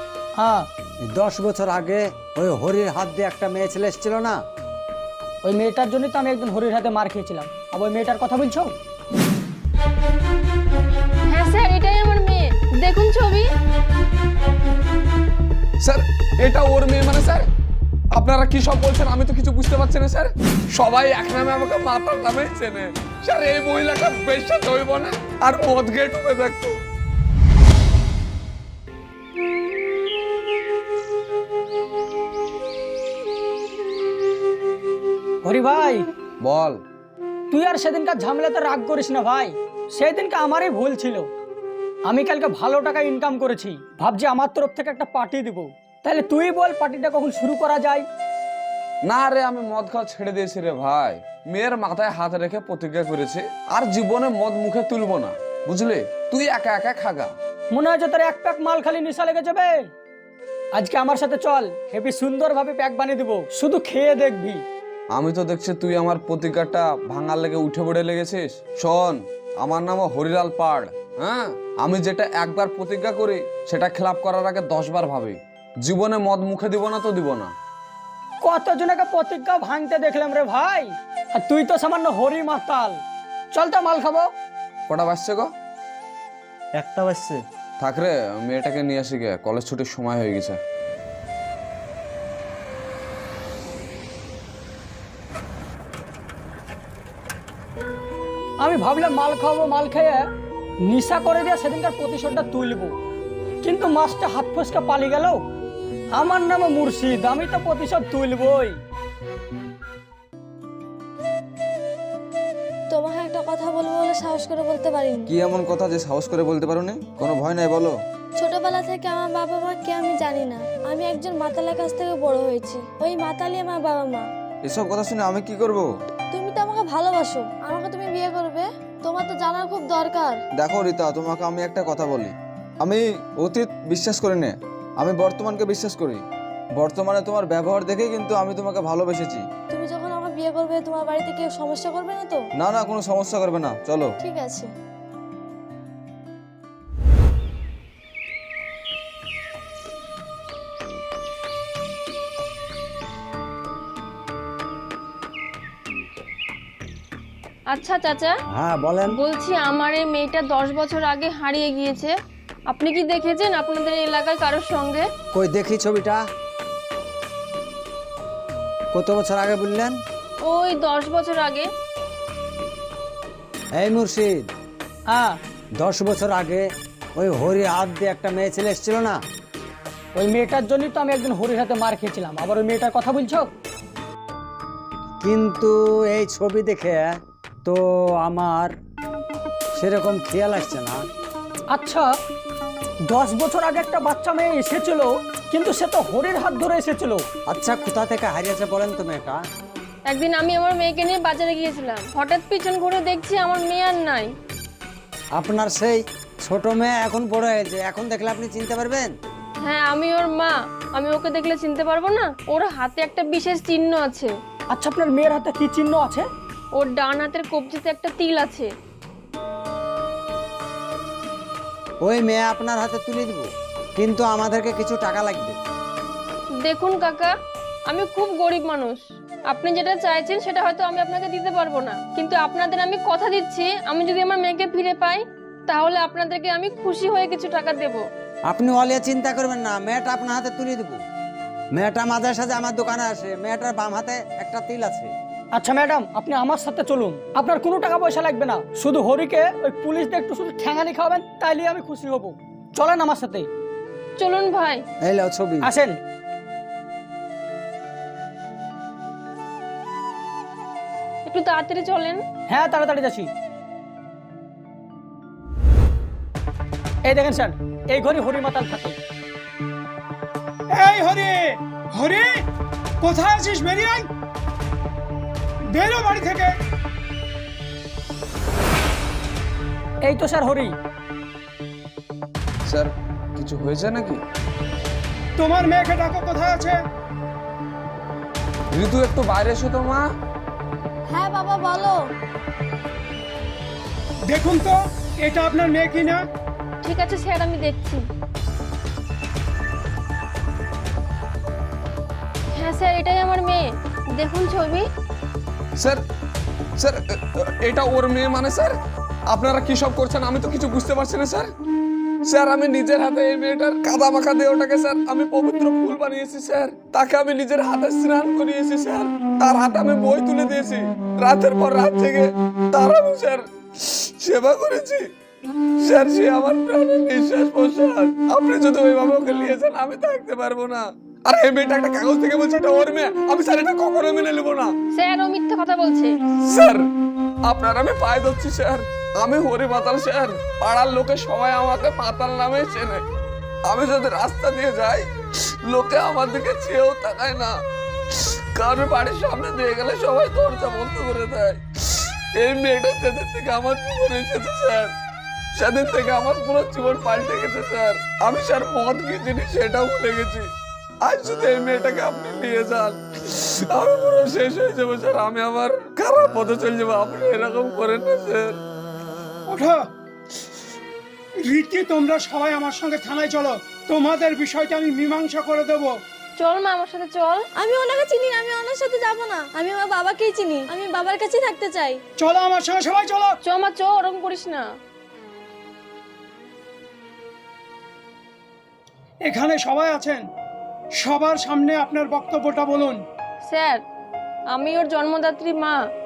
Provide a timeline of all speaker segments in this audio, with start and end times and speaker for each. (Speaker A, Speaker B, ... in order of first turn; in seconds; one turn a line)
Speaker A: 0.4-0.7
Speaker B: 1.1-4.4
Speaker A: 5.4-8.7
Speaker C: 11.3-13.5
Speaker D: 15.8-17.5
Speaker D: 18.1-26.8
Speaker A: 35.4-36.1
Speaker D: 36.4-36.8
Speaker A: 37.5-41.3
Speaker A: 42.1-48.0
Speaker D: 49.0-57.3
Speaker A: 57.7-59.9
Speaker A: 60.8-64.6
Speaker D: 65.1-77.5
Speaker A: 78.4-83.0
Speaker A: 83.5-84.3
Speaker D: 84.9-85.5
Speaker B: 86.8-87.4
Speaker D: 87.8-90.6
Speaker A: 98.6-100.3
Speaker A: 100.8-103.0
Speaker A: 103.6-105.4
Speaker A: 106.1-108.8
Speaker E: 112.9-115.3
Speaker F: 115.3-118.0
Speaker E: 118.4-124.2
Speaker F: 124.6-125.9
Speaker E: 126.3-130.4
Speaker F: 130.6-136.2
Speaker F: 136.8-139.5
Speaker E: 139.7-142.4
Speaker F: 142.6-144.2
Speaker E: 144.2-144.7
Speaker C: 157.7-158.3
Speaker B: 158.6-159.2
Speaker C: 159.1-162.1
Speaker C: 162.7-165.1
Speaker B: 165.3-166.2
Speaker B: 168.9-169.9
Speaker C: 170.4-171.7
Speaker B: 173.8-174.5
Speaker A: 175.1-175.4
Speaker B: 175.8-176.6
Speaker B: 177.2-179.2
Speaker A: 180.2-183.5
Speaker B: 185.2-187.1
Speaker B: 187.7-188.7
Speaker B: 189.8-191.0
Speaker A: 191.7-192.1
Speaker A: 193.1-197.3
Speaker B: 197.5-199.4
Speaker C: 200.1-204.3
Speaker B: 205.4-209.1
Speaker C: 209.6-214.3
Speaker A: 214.7-216.3
Speaker C: 216.8-218.7
Speaker B: 222.0-225.6
Speaker C: 226.6-227.3
Speaker C: 227.9-238.0
Speaker B: 238.5-241.0
Speaker B: 241.8-245.1
Speaker A: 245.5-253.5
Speaker C: 254.2-254.8
Speaker B: 255.1-255.7
Speaker A: 255.6-256.0
Speaker C: 261.3-262.2
Speaker A: 262.5-263.3
Speaker A: 267.0-269.0
Speaker G: 270.7-272.4
Speaker G: 273.0-274.1
Speaker G: 275.7-276.5
Speaker A: 280.0-280.7
Speaker D: 282.7-284.2
Speaker G: 285.4-286.8
Speaker D: 288.7-290.1
Speaker E: 291.1-292.0
Speaker G: 294.3-296.2
Speaker C: 296.8-298.0
Speaker C: 302.6-304.9
Speaker D: 305.8-306.0
Speaker D: 306.8-311.5
Speaker D: 312.2-325.1
Speaker D: 325.8-334.7
Speaker C: 334.9-336.1
Speaker D: 336.4-336.9
Speaker D: 337.4-343.0
Speaker D: 343.6-347.5
Speaker D: 348.1-354.9
Speaker D: 355.6-360.5
Speaker D: 361.0-368.6
Speaker G: 369.5-369.8
Speaker G: 371.4-375.9
Speaker C: 376.4-377.4
Speaker E: 377.6-382.0
Speaker G: 382.2-383.4
Speaker C: 383.5-384.6
Speaker G: 389.2-390.2
Speaker G: 391.0-393.0
Speaker C: 393.5-393.8
Speaker C: 394.5-395.8